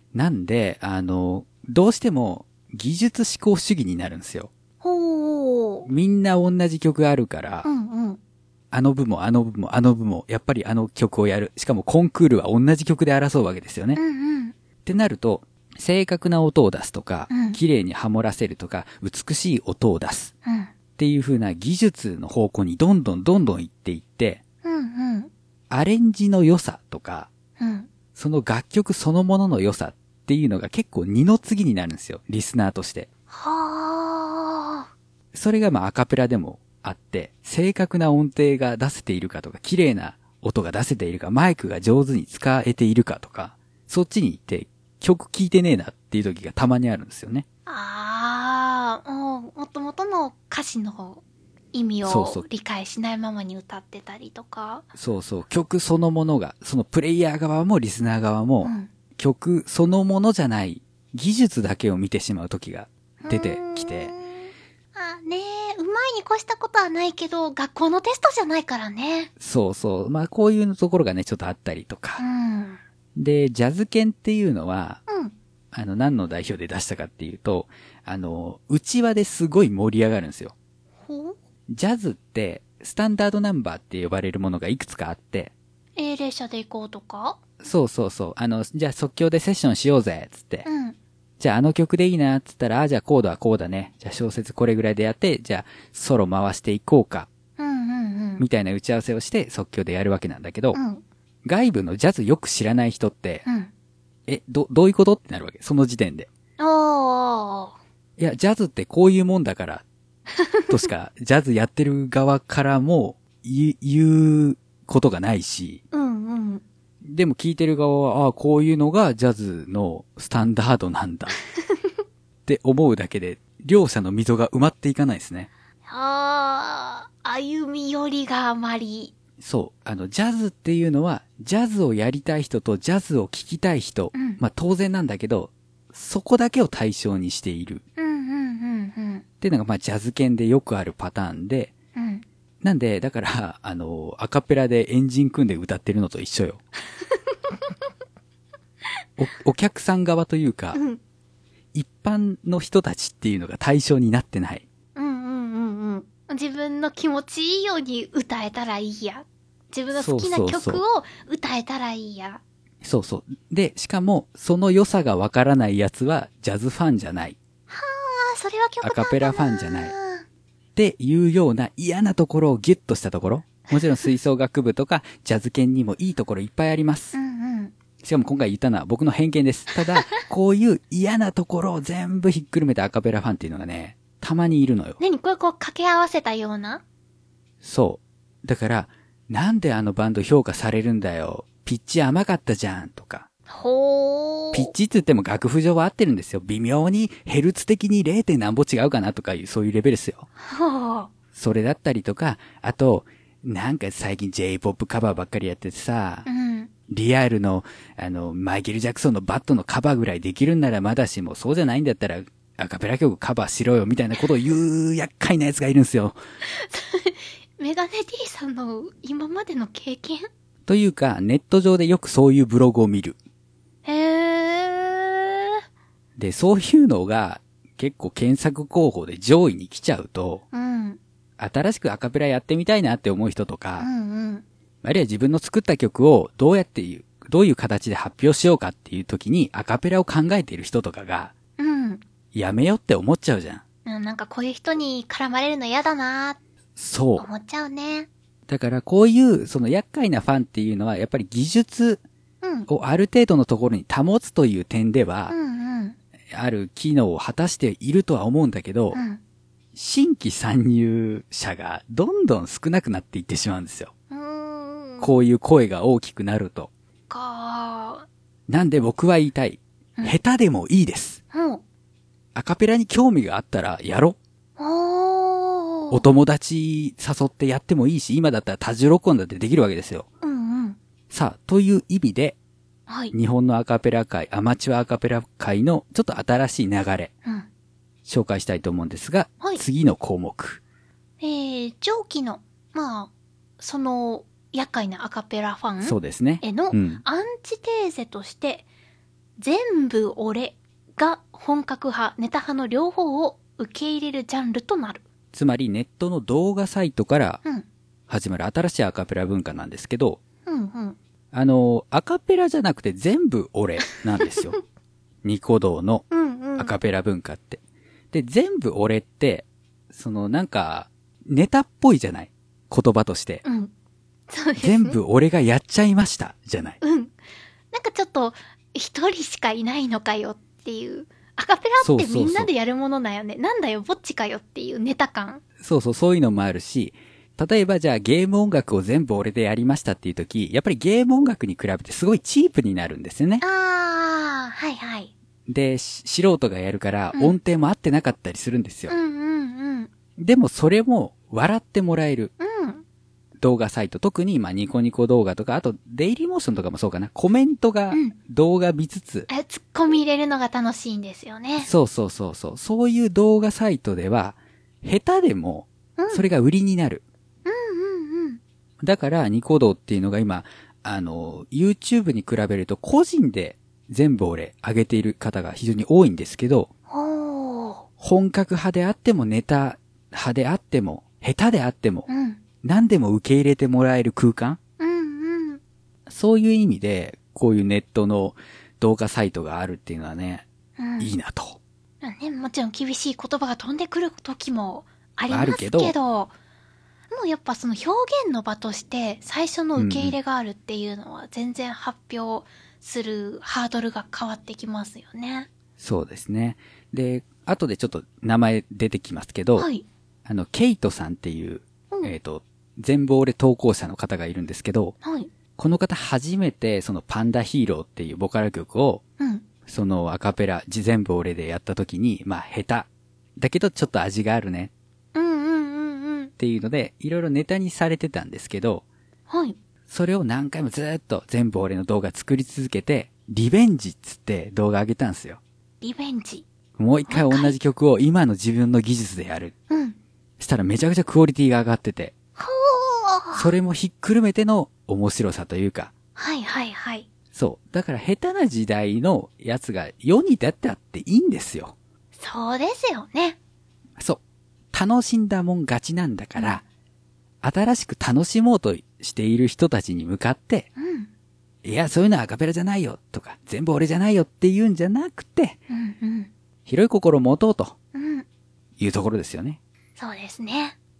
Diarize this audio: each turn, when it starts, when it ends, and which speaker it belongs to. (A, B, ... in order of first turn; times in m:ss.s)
0:00.1-0:04.5 A
0:04.8-0:05.9 B
0:05.8-0:07.7 A
0:07.6-0:08.2 B
0:08.7-0:14.0 A
0:13.9-0:14.5 B
0:14.8-0:20.3 A
0:17.3-0:17.6 B
0:20.4-0:20.7 B
0:21.0-0:24.4 A
0:24.6-0:25.3 B
0:25.7-0:27.3 A
0:27.6-0:27.9 B
0:28.1-0:33.1 A
0:33.3-0:34.9 B
0:35.3-0:47.4 A
0:47.6-0:51.2 B
0:51.7-0:54.8 B
0:52.0-0:52.4 A
0:54.9-1:04.1 A
0:58.6-0:58.9 B
1:03.2-1:09.3 B
1:09.4-1:12.2 A
1:12.2-1:12.8 B
1:13.2-1:15.0 A
1:15.1-1:15.3 B
1:15.7-1:20.5 A
1:21.0-1:21.4 B
1:21.7-1:25.5 A
1:26.0-1:27.4 B
1:27.6-1:30.6 A
1:30.6-1:31.0 B
1:31.4-1:37.3 A
1:37.6-1:38.4 B
1:38.4-1:40.8 A
1:40.7-1:41.0 B
1:41.4-1:43.4 A
1:43.4-1:43.7 B
1:44.3-1:46.3 A
1:46.6-1:47.7 B
1:48.2-1:49.8 A
1:50.4-1:50.9 B
1:50.7-1:55.8 A
1:55.9-1:56.6 B
1:57.0-2:01.4 A
2:01.6-2:01.9 B
2:02.4-2:05.5 A
2:05.9-2:09.1 B
2:09.4-2:17.8 A
2:14.1-2:14.4 B
2:18.0-2:19.2 B
2:19.4-2:21.7 A
2:21.9-2:22.2 B
2:22.6-2:26.6 A
2:27.0-2:27.6 B
2:29.2-2:30.8 A
2:30.7-2:31.0 B
2:31.7-2:34.6 A
2:34.9-2:42.4 B
2:39.9-2:40.8 A
2:42.8-2:47.4 A
2:47.7-2:50.2 B
2:48.8-2:49.9 A
2:50.8-2:57.1 A
2:57.1-2:57.7 B
2:58.0-3:05.0 A
3:05.0-3:06.8 B
3:07.6-3:13.3 A
3:13.5-3:14.7 B
3:14.5-3:20.3 A
3:20.4-3:21.1 B
3:21.3-3:26.2 A
3:26.2-3:26.7 B
3:26.9-3:36.2 A
3:36.4-3:40.3 B
3:40.7-3:43.2 A
3:43.8-3:45.6 B
3:46.2-3:50.4 A
3:50.5-3:51.0 B
3:51.4-3:53.9 A
3:53.8-3:54.4 B
3:54.8-4:01.3 A
4:01.6-4:02.0 B
4:02.3-4:03.6 A
4:03.8-4:06.4 B
4:06.8-4:07.3 A
4:07.2-4:08.1 B
4:08.5-4:12.0 A
4:12.4-4:12.7 B
4:12.7-4:15.3 A
4:15.3-4:16.0 B
4:16.3-4:19.0 A
4:18.9-4:19.2 B
4:19.7-4:23.9 A
4:24.1-4:25.1 B
4:25.0-4:26.7 A
4:27.1-4:28.0 B
4:28.5-4:31.2 A
4:31.3-4:31.6 B
4:32.3-4:34.2 A
4:34.6-4:36.0 B
4:35.9-4:40.1 A
4:40.2-4:40.8 B
4:41.1-4:42.4 A
4:42.9-4:43.1 B
4:43.1-4:47.1 A
4:48.0-4:50.6 A
4:51.2-4:58.6 B
4:55.8-4:57.0 A
4:59.4-5:05.0 B
5:05.3-5:07.4 A
5:08.1-5:10.2 A
5:10.4-5:11.0 B
5:11.3-5:14.6 A
5:15.2-5:17.6 A
5:16.1-5:16.7 B
5:18.1-5:23.4 A
5:23.4-5:23.7 B
5:24.3-5:25.0 B
5:24.6-5:26.8 A
5:26.8-5:27.1 B
5:27.7-5:35.4 B
5:31.8-5:32.5 A
5:35.6-5:43.4 A
5:43.4-5:45.1 B
5:45.5-5:48.9 A
5:48.9-5:49.9 B
5:50.2-5:52.3 A
5:52.4-5:52.8 B
5:53.4-5:59.3 A
5:59.3-6:01.7 B
6:01.6-6:07.0 A
6:06.0-6:06.2 B
6:07.4-6:08.4 B
6:08.8-6:16.7 A
6:16.9-6:17.8 B
6:18.0-6:22.1 A
6:22.1-6:22.4 B
6:22.6-6:24.6 A
6:24.8-6:25.6 B
6:26.1-6:30.5 A
6:30.8-6:31.1 B
6:31.0-6:31.6 A
6:32.0-6:36.3 B
6:35.3-6:35.9 A
6:37.1-6:45.5 B
6:39.8-6:40.2 A
6:45.8-6:49.7 A
6:49.6-6:49.8 B
6:50.2-6:55.0 A
6:55.0-6:55.3 B
6:55.6-6:59.0 A
6:59.2-6:59.4 B
6:59.7-7:04.7 A
7:05.1-7:06.3 B
7:06.4-7:08.8 A
7:09.3-7:09.6 B
7:09.9-7:15.4 A
7:15.8-7:16.4 B
7:16.8-7:19.5 A
7:17.1-7:17.5 B
7:19.7-7:20.0 B
7:20.4-7:22.1 A
7:22.4-7:23.5 B
7:23.3-7:25.9 A
7:26.2-7:27.1 B
7:27.3-7:31.7 A
7:32.2-7:33.4 B
7:34.7-7:36.6 A
7:37.4-7:40.7 A
7:40.8-7:41.1 B
7:41.6-7:45.6 A
7:45.7-7:46.3 B
7:46.6-7:47.7 A
7:47.9-7:48.2 B
7:48.8-7:49.6 A
7:50.0-7:50.8 B